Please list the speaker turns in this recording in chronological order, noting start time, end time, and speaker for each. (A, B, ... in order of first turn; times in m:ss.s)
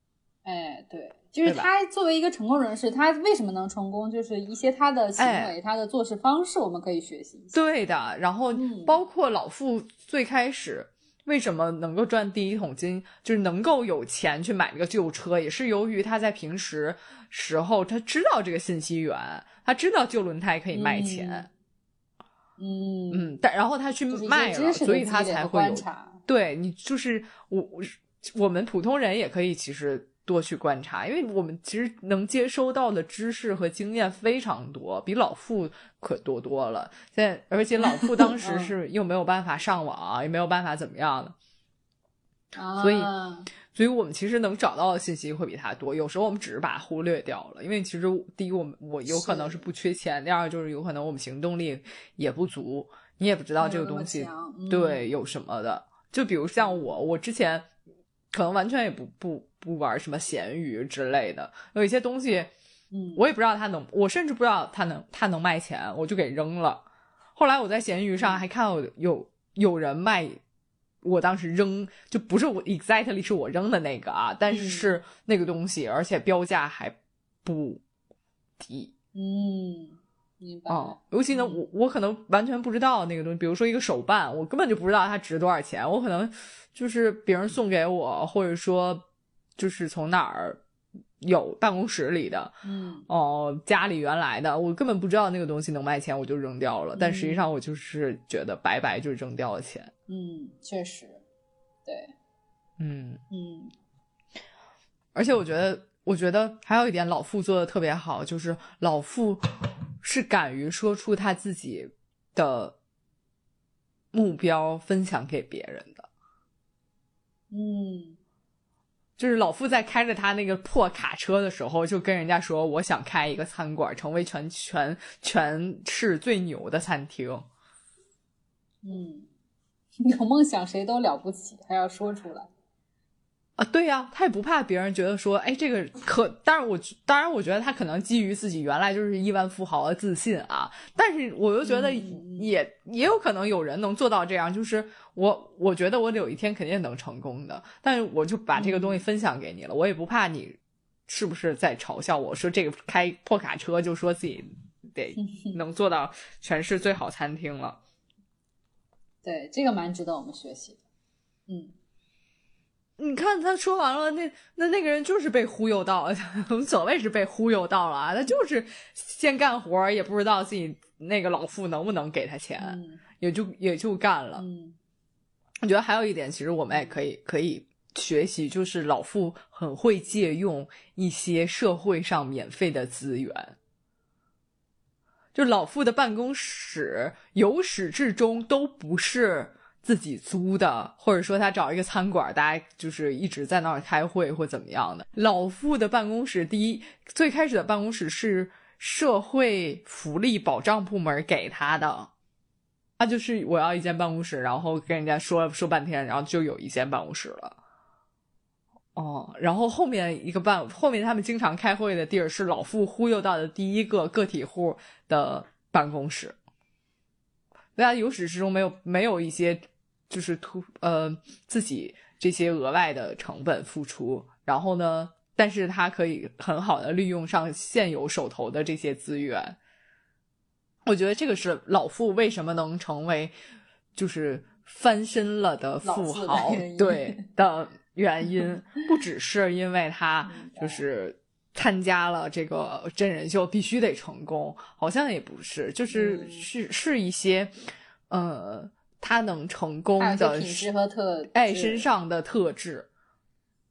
0:00.4-0:07.6 A
0:01.4-0:01.7 B
0:05.2-0:05.6 B
0:07.5-0:21.5 B
0:08.5-0:09.0 A
0:20.7-0:21.5 A
0:22.6-0:23.4 A
0:23.1-0:41.4 B
0:24.1-0:26.2 A
0:37.8-0:38.7 A
0:42.6-0:43.5 A
0:42.8-0:43.1 B
0:43.7-0:57.7 B
0:49.1-0:49.6 A
0:53.6-0:55.0 A
0:56.6-0:56.9 A
0:58.3-1:02.5 B
1:02.9-1:03.2 A
1:03.2-1:06.8 B
1:07.4-1:10.4 B
1:11.0-1:17.8 B
1:14.5-1:15.0 A
1:18.6-1:18.9 B
1:19.1-1:21.6 A
1:20.7-1:29.0 B
1:29.6-1:30.6 B
1:31.2-1:32.6 B
1:32.6-1:33.1 A
1:33.1-1:39.9 B
1:37.0-1:37.4 A
1:40.1-1:41.2 A
1:41.9-1:42.1 A
1:42.8-1:43.2 B
1:43.3-1:43.7 A
1:45.2-1:52.8 B
1:54.1-1:56.1 B
1:57.5-1:58.2 A
1:59.2-2:07.5 B
2:08.8-2:09.3 A
2:10.0-2:12.5 A
2:13.6-2:37.8 B
2:21.6-2:22.5 A
2:28.6-2:29.0 A
2:35.2-2:35.6 A
2:39.2-2:40.8 A
2:41.5-2:41.7 A
2:43.0-2:54.4 B
2:52.6-2:53.0 A
2:54.4-2:54.8 A
2:55.6-3:03.6 B
2:56.7-2:57.0 A
3:05.3-3:22.1 B
3:23.0-3:27.6 B
3:29.0-3:36.4 B
3:37.8-3:49.6 B
3:50.8-3:53.3 B
3:54.0-4:07.6 B
3:55.8-3:57.2 A
4:00.3-4:00.8 A
4:05.9-4:06.5 A
4:08.1-4:10.7 B
4:10.0-4:11.8 A
4:11.3-4:12.9 B